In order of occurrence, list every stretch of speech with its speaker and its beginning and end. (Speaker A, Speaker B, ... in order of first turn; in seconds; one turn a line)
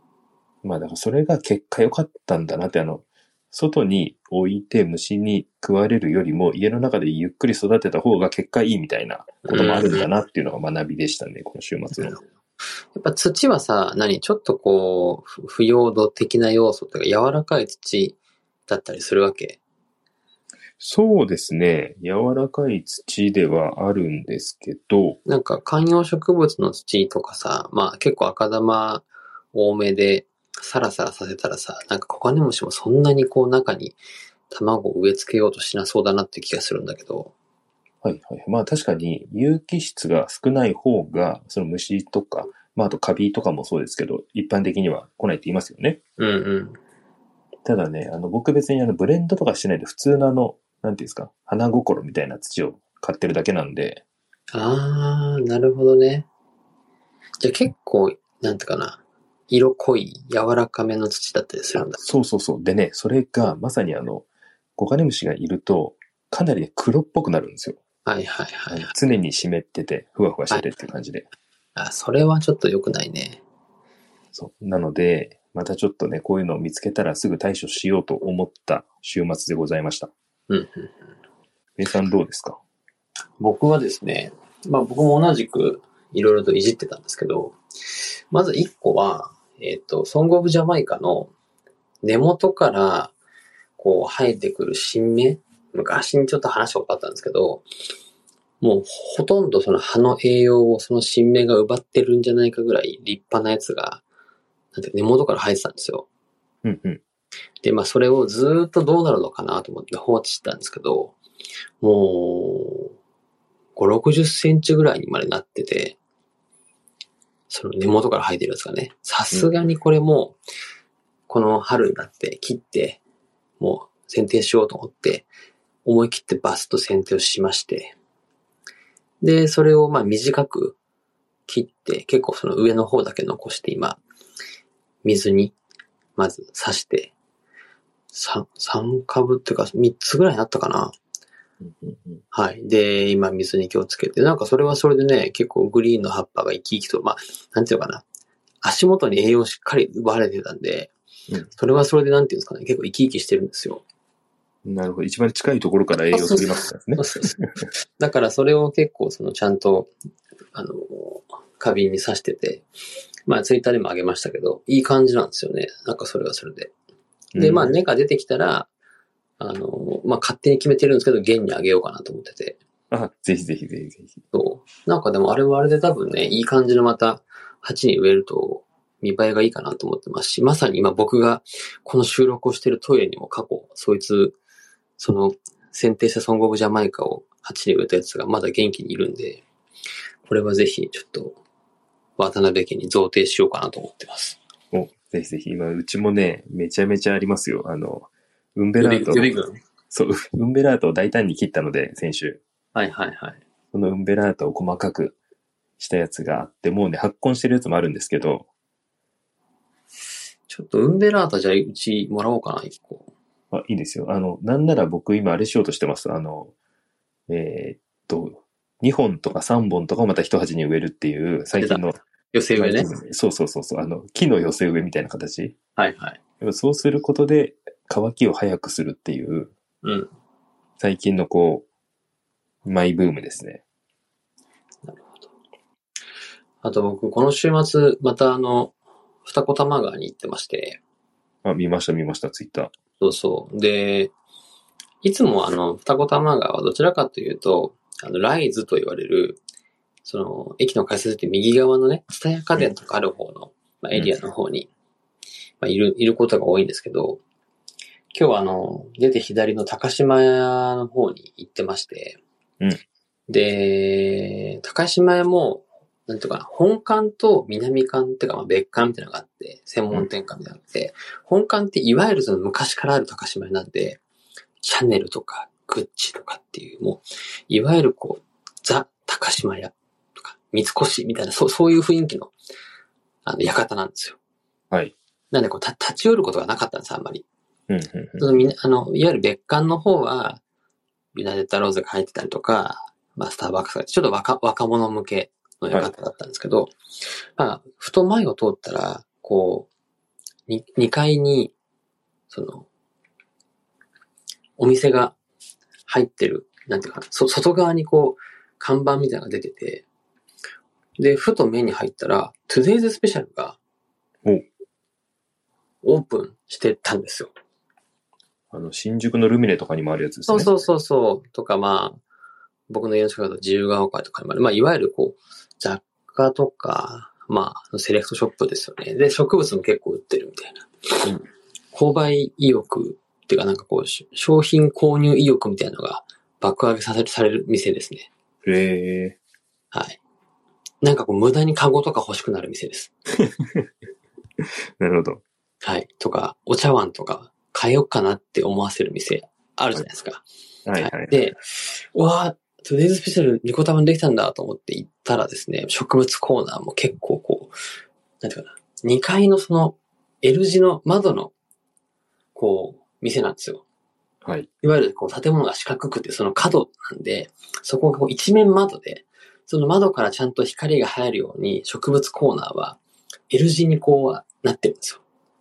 Speaker A: 0.6-12.2
Speaker B: 9.4-10.1
Speaker B: 12.9-19.6
Speaker A: 20.8-25.2
Speaker B: 25.2-34.0
Speaker B: 34.5-37.3
Speaker A: 38.0-46.0
Speaker B: 46.2-46.8
Speaker A: 47.6-54.0
Speaker B: 54.5-56.2
Speaker B: 57.4-62.0
Speaker A: 62.0-64.2
Speaker A: 64.8-67.8
Speaker B: 68.0-68.9
Speaker A: 68.7-71.2
Speaker B: 71.8-73.4
Speaker A: 74.3-80.1
Speaker B: 80.5-81.0
Speaker A: 81.8-82.6
Speaker B: 83.4-87.6
Speaker B: 88.3-91.3
Speaker B: 92.0-93.1
Speaker B: 93.8-97.6
Speaker B: 98.6-104.0
Speaker B: 104.7-106.0
Speaker A: 106.6-107.0
Speaker B: 107.6-111.2
Speaker B: 111.8-112.9
Speaker B: 113.8-116.0
Speaker B: 117.5-120.4
Speaker B: 121.3-123.0
Speaker B: 123.6-125.3
Speaker B: 125.8-127.9
Speaker B: 129.2-130.8
Speaker B: 131.5-134.0
Speaker B: 135.0-135.6
Speaker B: 136.2-137.1
Speaker B: 138.1-140.9
Speaker A: 141.6-142.2
Speaker B: 142.3-148.0
Speaker B: 148.6-150.9
Speaker B: 151.6-153.8
Speaker A: 154.6-157.6
Speaker B: 156.1-157.3
Speaker B: 157.9-159.9
Speaker B: 160.5-162.6
Speaker B: 163.3-166.7
Speaker A: 167.3-167.7
Speaker B: 167.3-168.7
Speaker B: 169.4-172.6
Speaker A: 172.9-174.2
Speaker B: 174.3-184.3
Speaker B: 185.0-189.4
Speaker B: 190.2-191.4
Speaker B: 192.2-194.4
Speaker A: 194.7-199.3
Speaker B: 198.8-199.6
Speaker A: 199.9-202.4
Speaker B: 202.7-203.4
Speaker A: 203.7-205.2
Speaker A: 205.8-208.5
Speaker B: 210.5-213.1
Speaker A: 213.5-216.5
Speaker A: 217.3-222.0
Speaker B: 221.6-222.9
Speaker A: 222.6-225.6
Speaker B: 225.8-226.2
Speaker A: 226.4-229.5
Speaker B: 229.8-230.1
Speaker A: 230.8-231.7
Speaker A: 232.6-233.6
Speaker B: 234.8-235.3
Speaker B: 236.6-240.8
Speaker A: 241.4-242.7
Speaker B: 243.0-244.1
Speaker B: 245.0-249.4
Speaker B: 250.0-254.7
Speaker B: 255.6-257.2
Speaker B: 258.1-262.2
Speaker B: 263.3-274.0
Speaker B: 274.6-282.3
Speaker B: 283.2-284.2
Speaker B: 285.3-287.2
Speaker A: 287.7-288.3
Speaker B: 288.2-290.4
Speaker B: 291.1-296.7
Speaker B: 297.4-299.7
Speaker B: 300.5-301.5
Speaker B: 302.3-302.6
Speaker B: 304.6-305.1
Speaker B: 305.9-309.8
Speaker B: 311.0-313.6
Speaker B: 315.8-317.3
Speaker A: 318.5-320.5
Speaker B: 320.3-322.0
Speaker B: 322.7-330.9
Speaker B: 331.7-338.1
Speaker A: 338.4-339.2
Speaker B: 339.7-340.0
Speaker B: 340.8-342.9
Speaker A: 343.2-343.7
Speaker A: 344.8-345.2
Speaker B: 345.6-350.2
Speaker A: 350.6-351.3
Speaker B: 350.8-357.5
Speaker B: 358.2-361.3
Speaker B: 362.3-363.6
Speaker B: 364.6-372.8
Speaker B: 373.3-375.0